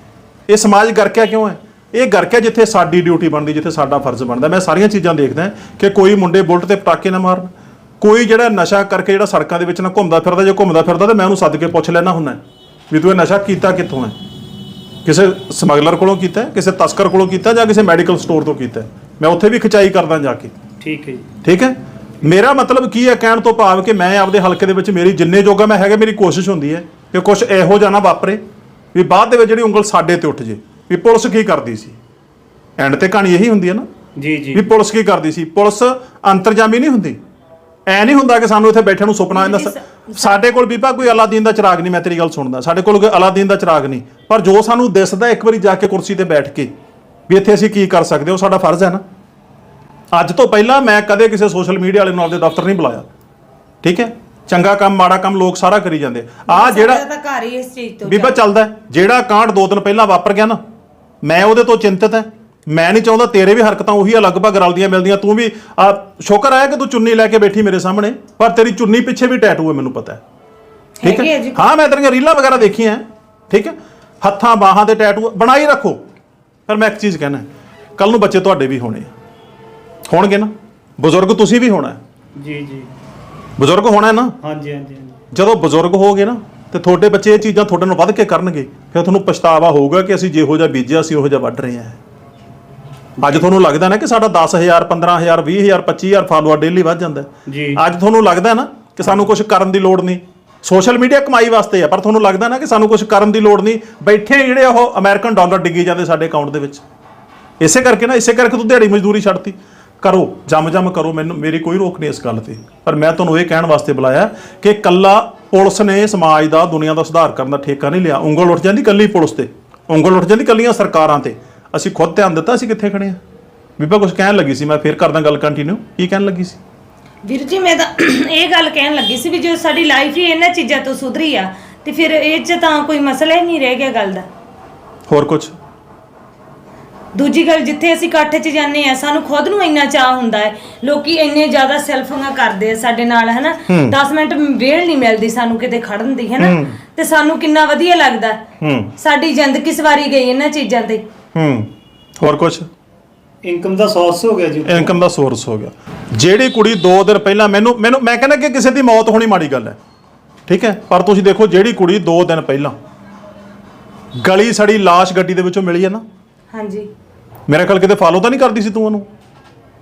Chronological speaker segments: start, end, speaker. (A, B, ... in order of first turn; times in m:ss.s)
0:00.5-0:07.5 A
0:08.0-0:14.2 A
0:15.0-0:20.5 A
0:20.8-0:21.3 B
0:21.4-0:28.4 A
0:28.9-0:32.0 A
0:32.8-0:33.9 A
0:34.2-0:34.7 B
0:34.5-0:37.2 A
0:37.9-0:46.7 A
0:39.3-0:40.4 C
0:47.3-0:49.0 A
0:50.1-0:53.1 A
0:53.8-0:57.0 A
0:56.5-0:58.4 C
0:58.1-1:00.6 A
1:01.2-1:10.2 A
1:11.0-1:11.6 C
1:11.0-1:16.0 A
1:16.7-1:19.1 A
1:20.1-1:22.0 A
1:22.4-1:22.9 B
1:23.6-1:24.4 A
1:24.4-1:25.2 B
1:25.3-1:32.0 A
1:33.2-1:33.5 B
1:33.2-1:46.8 A
1:37.5-1:37.8 B
1:39.0-1:39.3 B
1:47.6-2:03.2 A
2:03.8-2:06.6 A
2:07.2-2:14.3 C
2:15.1-2:15.6 A
2:17.1-2:28.4 C
2:23.7-2:24.0 A
2:26.4-2:26.8 A
2:28.6-2:28.9 A
2:29.0-2:31.0 C
2:31.4-2:32.7 A
2:33.4-2:35.0 B
2:34.7-2:39.8 A
2:40.5-2:42.8 A
2:44.2-2:46.0 A
2:46.5-2:46.9 C
2:47.5-2:49.1 A